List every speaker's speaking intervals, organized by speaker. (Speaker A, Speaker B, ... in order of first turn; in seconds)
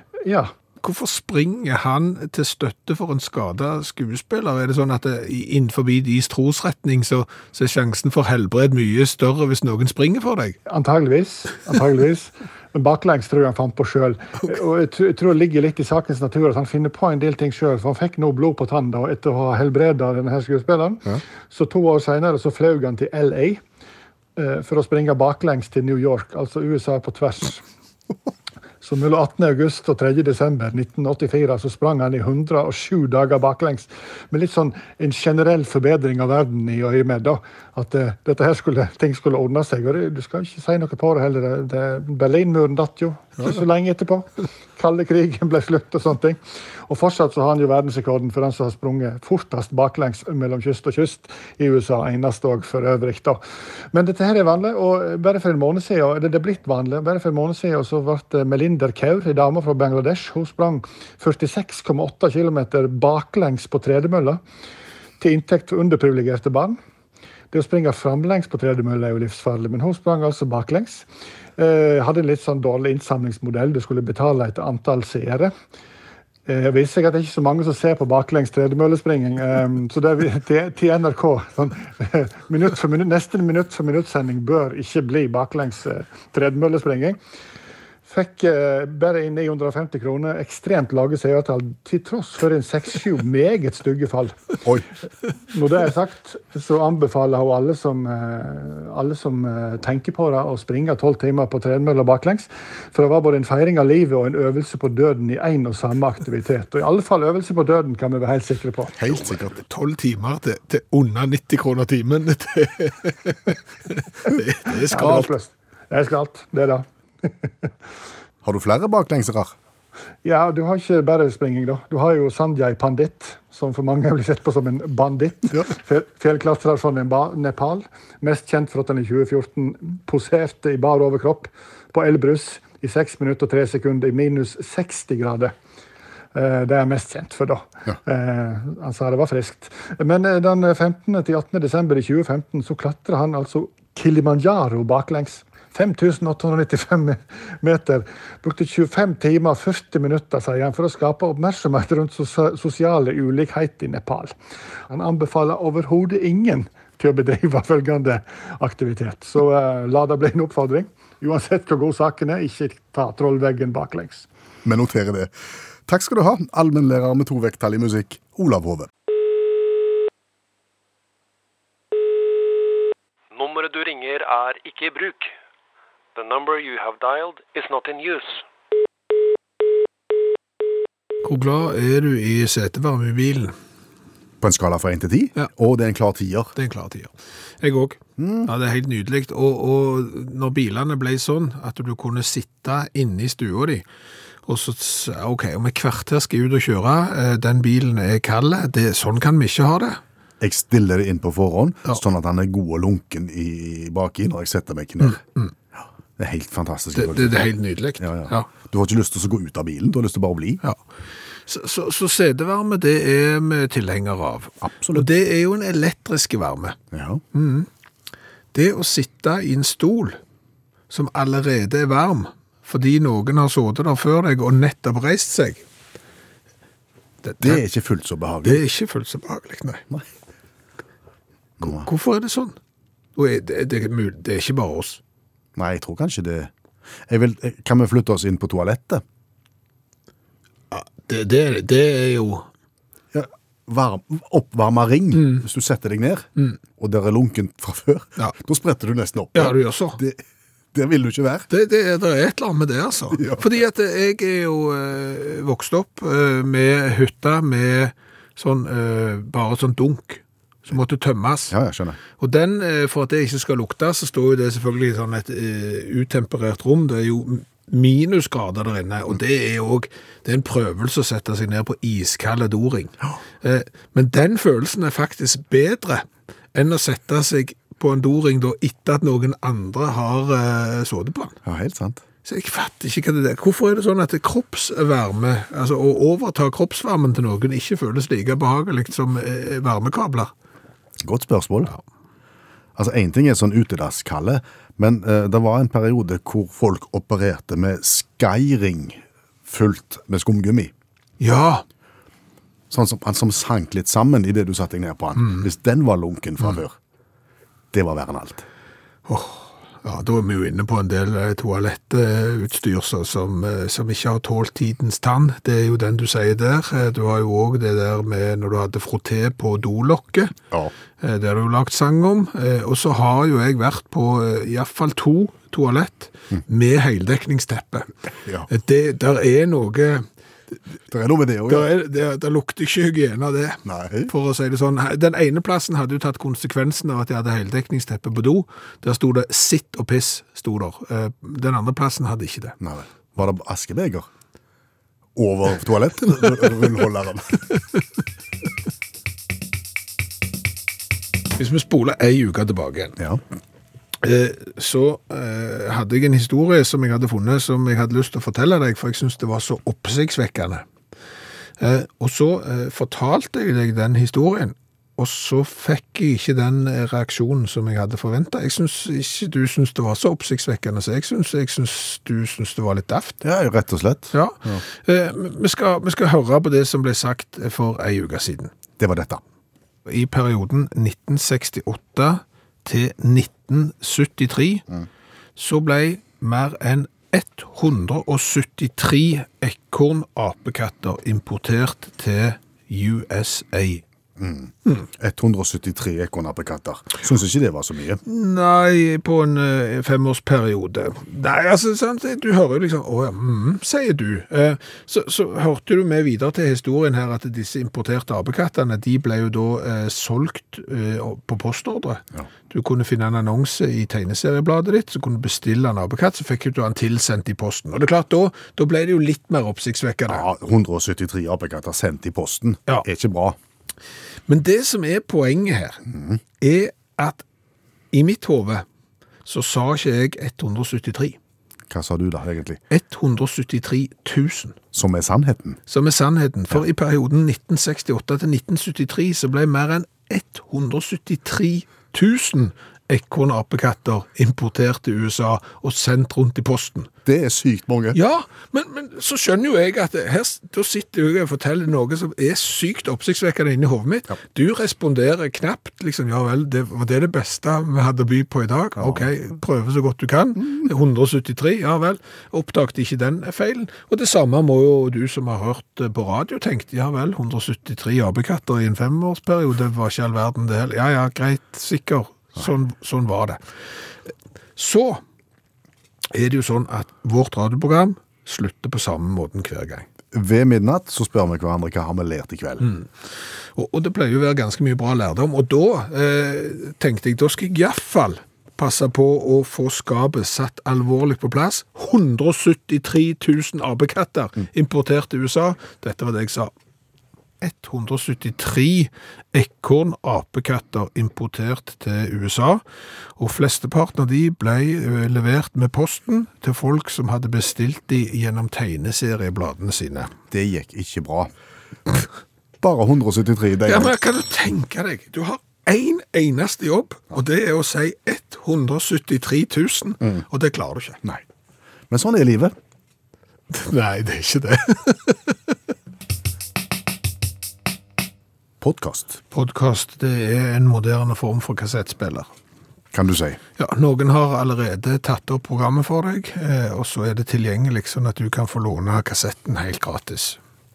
Speaker A: 0.2-0.5, 10.7-23.6, 24.4-27.6, 28.8-64.4, 65.2-66.8, 67.5-71.0, 71.6-75.5, 76.5-87.2, 88.0-94.6, 95.5-109.0, 114.9-117.3, 120.2-135.5, 136.3-154.3, 154.9-164.3
Speaker B: 0.8-10.6, 109.1-115.3, 181.2-183.5, 186.6-193.8, 194.4-200.0, 205.1-205.5, 206.9-208.5, 211.4-216.8, 217.3-217.7, 218.5-220.2, 220.9-225.6, 227.2-227.6, 228.4-229.8, 231.6-232.6, 233.2-235.0, 240.7-242.5, 245.1-245.4, 249.3-250.0, 251.5-261.5, 262.2-281.4, 282.2-290.3, 301.2-301.6, 309.1-320.3, 321.0-327.9, 328.5-330.1, 331.5-342.6, 351.4-353.0, 354.0-360.6, 361.6-373.2, 374.1-378.5, 379.9-384.6, 385.4-393.8, 398.1-420.2, 424.3-425.9, 426.4-427.2, 427.9-428.6, 429.2-431.1, 432.7-434.6, 435.7-446.9, 447.9-473.4, 474.6-475.0, 476.1-479.9, 482.6-482.9, 483.5-496.5, 497.4-502.6, 503.2-510.1, 513.6-521.0, 523.5-525.5, 529.3-532.3, 533.6-540.4
Speaker C: 109.0-109.5, 118.4-119.5, 164.6-165.3, 165.8-168.9, 184.4-186.6, 188.2-188.5, 200.4-205.2, 205.8-207.4, 208.0-210.6, 214.6-215.1, 216.9-217.2, 227.4-228.6, 231.6-231.9, 235.6-236.5, 237.1-239.0, 243.1-250.2, 250.7-251.5, 253.1-253.4, 261.5-262.0, 281.4-282.0, 291.0-291.7, 292.8-300.7, 302.7-306.8, 307.7-308.4, 330.9-331.7, 333.6-334.1, 342.6-344.1, 345.1-347.5, 373.2-374.6, 378.8-379.2, 394.2-398.0, 420.1-423.4, 425.9-426.2, 431.7-432.6, 434.7-435.6, 447.0-448.0, 458.8-459.1, 480.1-482.7, 510.3-511.3, 512.6-513.9, 521.9-522.5, 528.6-529.2, 532.9-533.4
Speaker D: 173.3-175.3, 176.1-178.4